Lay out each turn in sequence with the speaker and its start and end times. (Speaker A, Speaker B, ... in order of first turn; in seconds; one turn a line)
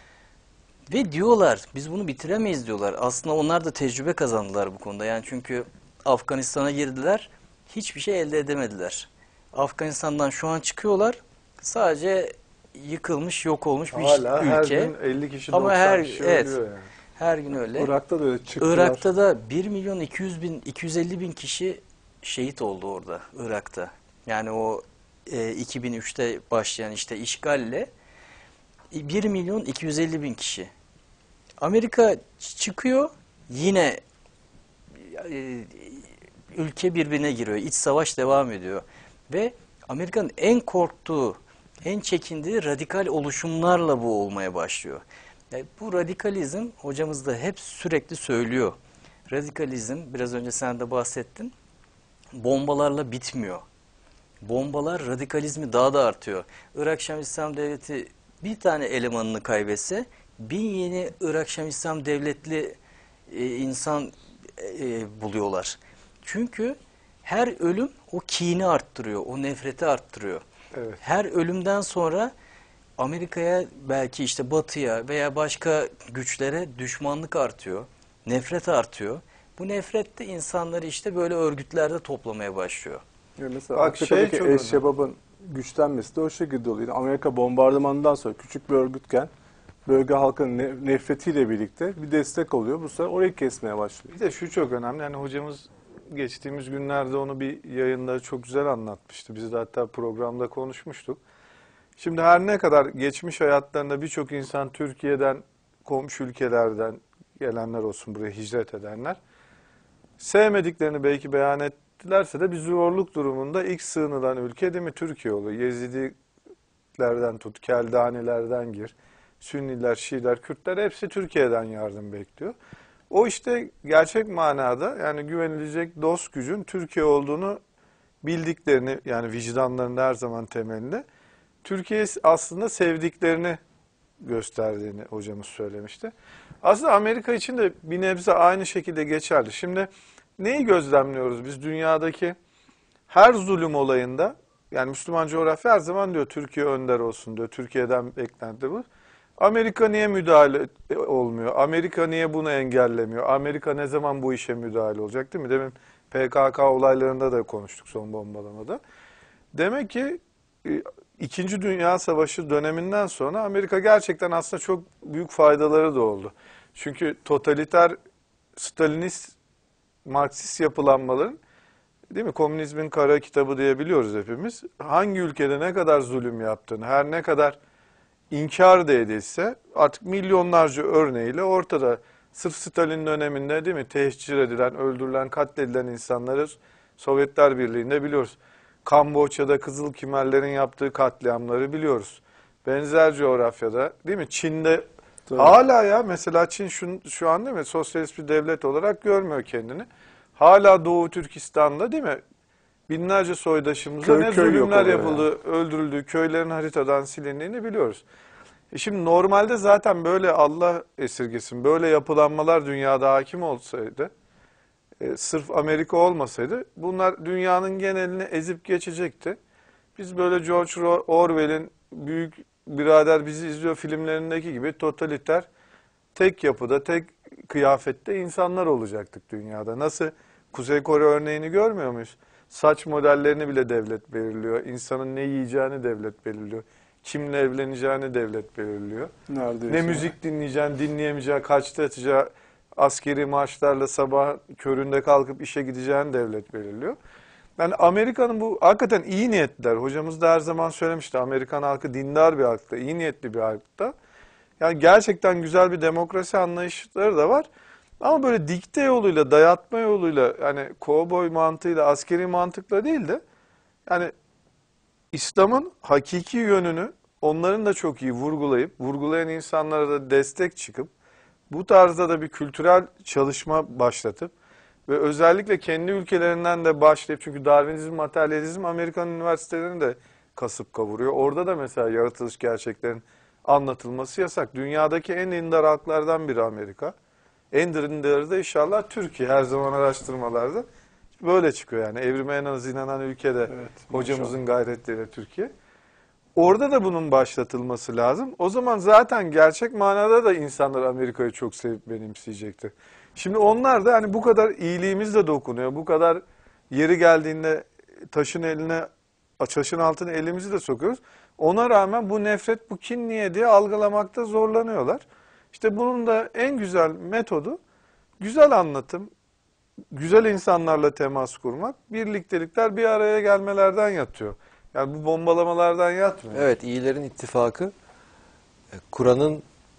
Speaker A: 0.9-14.9
Speaker B: 13.9-16.9
Speaker A: 15.5-16.6
Speaker A: 17.2-17.9
Speaker C: 17.8-19.1
Speaker A: 18.6-27.9
Speaker A: 28.9-30.7
Speaker A: 31.6-34.0
Speaker A: 35.0-48.8
Speaker A: 49.3-51.5
Speaker A: 52.3-53.6
Speaker A: 54.4-62.8
Speaker A: 63.3-70.4
Speaker B: 70.7-71.0
Speaker A: 71.0-72.3
Speaker A: 73.0-83.0
Speaker C: 83.4-89.3
Speaker B: 83.8-84.8
Speaker C: 89.9-94.1
Speaker B: 94.1-101.2
Speaker B: 102.0-109.2
Speaker B: 110.2-116.2
Speaker B: 117.0-122.6
Speaker B: 123.1-127.6
Speaker B: 128.2-131.1
Speaker B: 131.6-133.6
Speaker B: 134.2-142.4
Speaker B: 143.1-148.9
Speaker B: 149.4-158.8
Speaker B: 159.5-168.0
Speaker B: 168.6-169.3
Speaker B: 170.1-171.4
Speaker B: 172.1-177.6
Speaker B: 178.3-194.8
Speaker C: 195.3-195.6
Speaker B: 195.4-202.2
Speaker B: 202.9-208.0
Speaker C: 204.0-205.3
Speaker B: 208.7-214.1
Speaker B: 215.0-219.4
Speaker B: 220.0-225.5
Speaker B: 226.1-239.1
Speaker C: 239.3-240.1
Speaker B: 239.7-247.0
Speaker B: 247.6-253.9
Speaker B: 254.6-257.5
Speaker B: 258.0-263.2
Speaker B: 263.9-264.1
Speaker B: 265.1-270.9
Speaker B: 271.5-274.3
Speaker B: 274.9-286.9
Speaker B: 287.5-290.7
Speaker B: 291.2-295.5
Speaker C: 293.5-294.4
Speaker B: 296.4-308.9
Speaker B: 309.4-317.6
Speaker B: 318.2-319.1
Speaker B: 319.9-326.5
Speaker D: 326.3-327.7
Speaker D: 328.8-329.4